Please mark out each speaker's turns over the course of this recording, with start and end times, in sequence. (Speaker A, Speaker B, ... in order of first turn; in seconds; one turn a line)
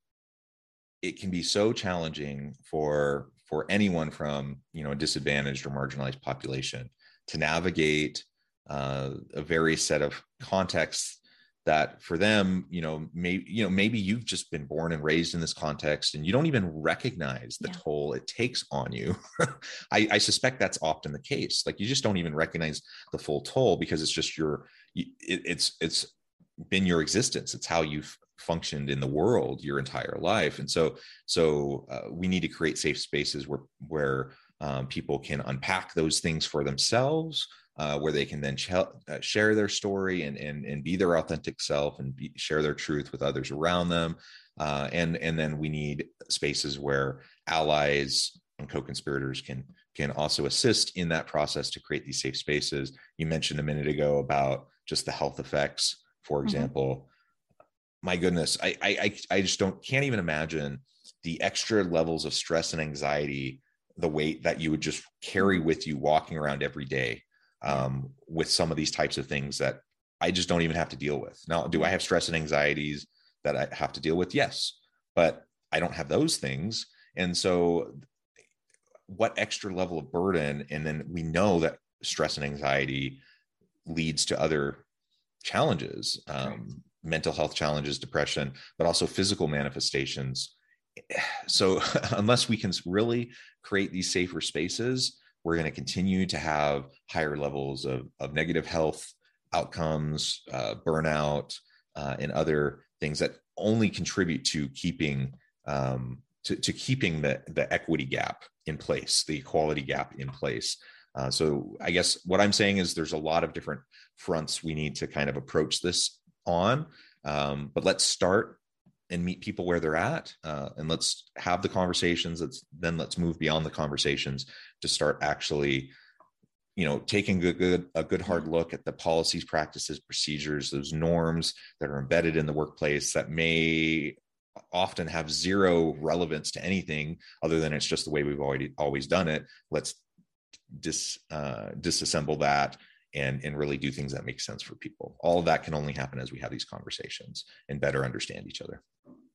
Speaker A: 1.0-57.1
Speaker A: 58.0-78.0
Speaker A: 79.1-83.2
Speaker A: 83.8-84.8
Speaker A: 85.4-118.6
Speaker A: 119.1-125.9
Speaker A: 126.8-134.2
Speaker A: 134.7-140.0
Speaker A: 140.7-148.8